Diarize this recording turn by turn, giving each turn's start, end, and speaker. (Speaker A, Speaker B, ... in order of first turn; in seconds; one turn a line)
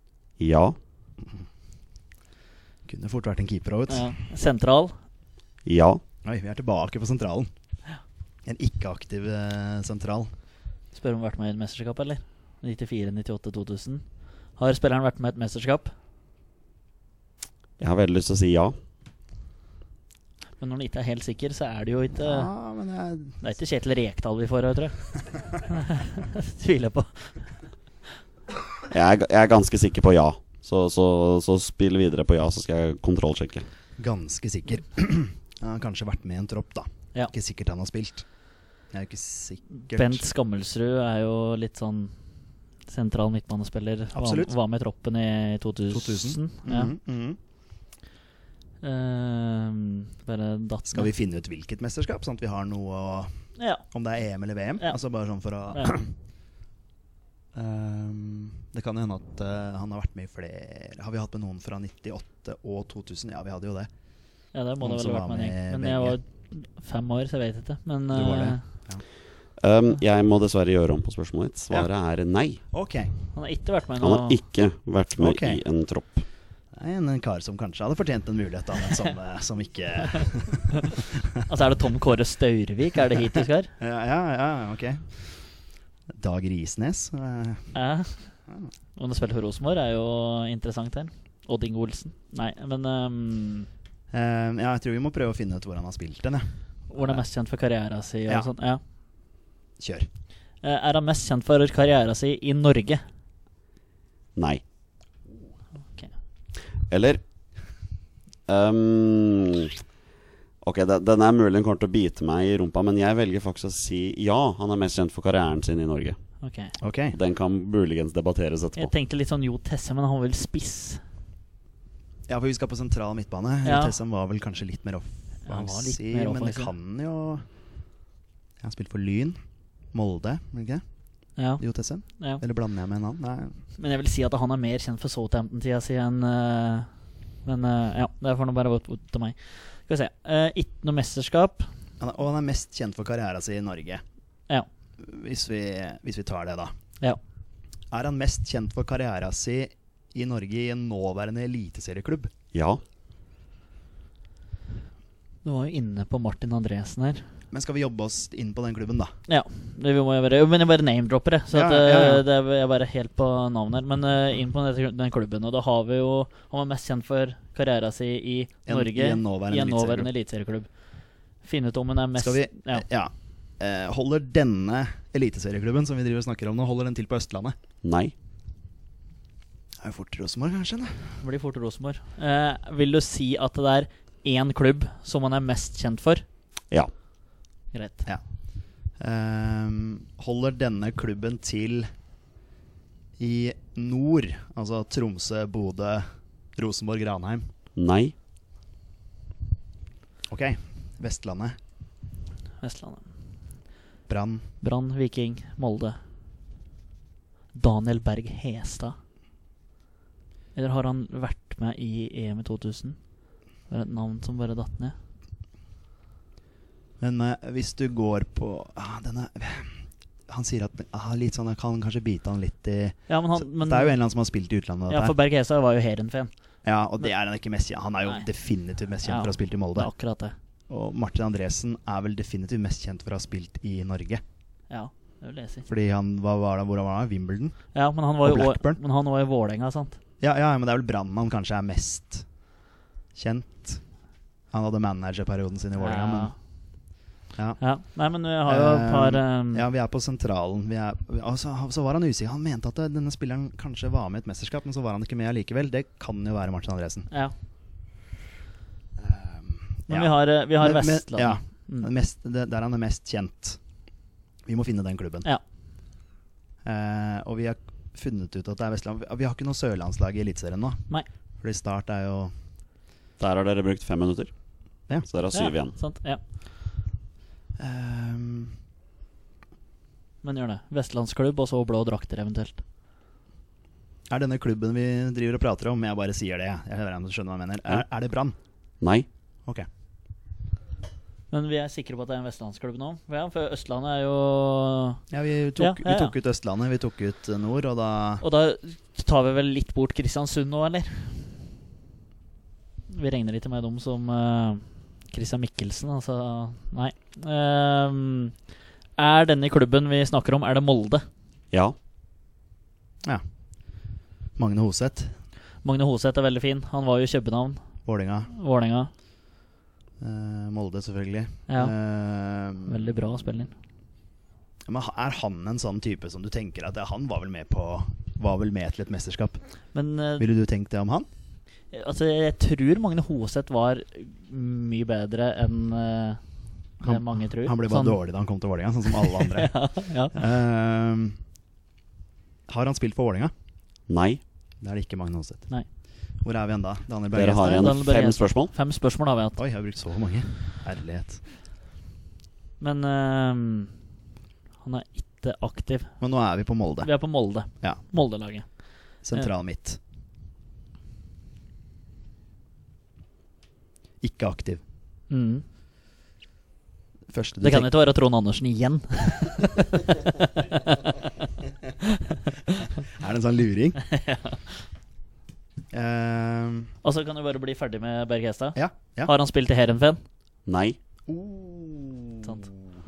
Speaker A: 0.4-0.8
Speaker B: 2.9-4.1
Speaker C: 3.9-5.0
Speaker A: 5.6-6.0
Speaker B: 6.2-7.5
Speaker B: 8.4-10.3
Speaker C: 10.9-15.9
Speaker A: 17.8-18.8
Speaker C: 20.6-22.5
Speaker B: 22.2-23.4
Speaker C: 23.4-27.5
Speaker A: 28.9-33.6
Speaker B: 34.0-38.2
Speaker B: 38.9-40.2
Speaker C: 39.8-42.1
Speaker C: 42.8-46.9
Speaker B: 44.1-44.5
Speaker B: 45.9-47.4
Speaker C: 48.8-51.1
Speaker B: 50.9-56.1
Speaker C: 53.5-53.8
Speaker B: 57.5-63.9
Speaker C: 64.5-68.8
Speaker B: 64.8-66.2
Speaker B: 68.1-69.0
Speaker A: 69.6-72.6
Speaker B: 72.7-73.1
Speaker C: 73.3-74.4
Speaker A: 74.0-76.2
Speaker B: 75.2-75.6
Speaker B: 76.7-80.9
Speaker C: 81.5-83.7
Speaker B: 83.8-85.2
Speaker B: 86.1-87.7
Speaker C: 87.7-88.3
Speaker C: 89.0-93.7
Speaker B: 94.1-97.2
Speaker C: 96.9-98.8
Speaker B: 99.8-100.1
Speaker C: 100.6-103.0
Speaker A: 104.3-104.6
Speaker A: 106.9-107.2
Speaker A: 108.5-109.7
Speaker A: 110.6-116.2
Speaker C: 116.4-116.8
Speaker B: 116.8-117.2
Speaker A: 117.1-118.9
Speaker C: 118.8-121.0
Speaker B: 122.3-127.4
Speaker C: 123.6-124.0
Speaker C: 125.5-126.7
Speaker B: 128.6-129.4
Speaker B: 129.9-130.8
Speaker C: 131.3-132.4
Speaker B: 131.6-133.6
Speaker C: 133.8-136.9
Speaker C: 137.4-141.7
Speaker B: 142.0-144.0
Speaker B: 145.0-146.7
Speaker B: 147.9-152.3
Speaker A: 152.5-152.8
Speaker C: 155.4-157.2
Speaker B: 157.5-159.1
Speaker C: 159.3-172.8
Speaker B: 161.5-162.2
Speaker B: 168.7-170.1
Speaker B: 172.2-177.5
Speaker A: 177.8-178.1
Speaker B: 179.8-181.2
Speaker C: 181.2-186.2
Speaker C: 187.7-188.1
Speaker B: 188.1-191.9
Speaker B: 193.2-197.5
Speaker A: 197.8-198.1
Speaker B: 200.3-201.6
Speaker C: 202.6-203.1
Speaker B: 204.1-204.5
Speaker C: 204.6-206.0
Speaker C: 207.5-209.0
Speaker C: 210.5-213.0
Speaker C: 213.7-214.9
Speaker B: 217.0-225.1
Speaker C: 223.1-223.9
Speaker C: 224.9-226.3
Speaker B: 226.6-229.9
Speaker C: 229.0-230.3
Speaker B: 230.7-234.2
Speaker C: 234.7-235.7
Speaker B: 235.7-238.8
Speaker C: 237.7-240.0
Speaker B: 240.2-242.3
Speaker B: 243.1-243.8
Speaker B: 244.5-246.3
Speaker C: 245.8-246.3
Speaker B: 247.3-247.6
Speaker C: 247.6-249.7
Speaker B: 248.4-257.1
Speaker B: 259.0-263.6
Speaker C: 259.9-261.9
Speaker B: 264.4-265.3
Speaker B: 266.6-272.3
Speaker A: 273.2-275.8
Speaker C: 275.3-276.2
Speaker B: 277.6-278.5
Speaker C: 280.2-282.6
Speaker B: 284.1-288.3
Speaker A: 288.8-289.1
Speaker C: 291.3-295.0
Speaker B: 295.1-298.2
Speaker C: 295.6-296.1
Speaker C: 298.2-301.2
Speaker C: 302.9-308.4
Speaker C: 309.0-311.0
Speaker B: 313.7-315.1
Speaker C: 315.6-318.9
Speaker B: 317.8-318.3
Speaker B: 320.0-323.0
Speaker C: 321.5-321.7
Speaker C: 322.7-323.5
Speaker B: 324.6-329.5
Speaker C: 329.7-330.2
Speaker B: 330.2-331.1
Speaker C: 331.7-338.0
Speaker B: 336.8-341.2
Speaker C: 339.0-340.1
Speaker B: 342.5-343.3
Speaker A: 343.9-344.2
Speaker B: 344.6-345.5
Speaker B: 346.2-347.7
Speaker A: 347.1-348.5
Speaker C: 347.4-349.4
Speaker B: 349.4-351.2
Speaker C: 352.6-353.8
Speaker C: 354.6-356.0
Speaker B: 356.0-356.9
Speaker C: 356.8-359.3
Speaker B: 357.6-357.8
Speaker B: 359.0-359.8
Speaker B: 364.0-364.6
Speaker C: 365.1-365.4
Speaker B: 367.1-367.7
Speaker C: 367.4-370.8
Speaker B: 372.9-373.8
Speaker C: 373.8-374.4
Speaker B: 375.7-376.7
Speaker C: 376.8-380.0
Speaker B: 378.6-379.1
Speaker A: 380.5-380.8
Speaker B: 381.1-382.4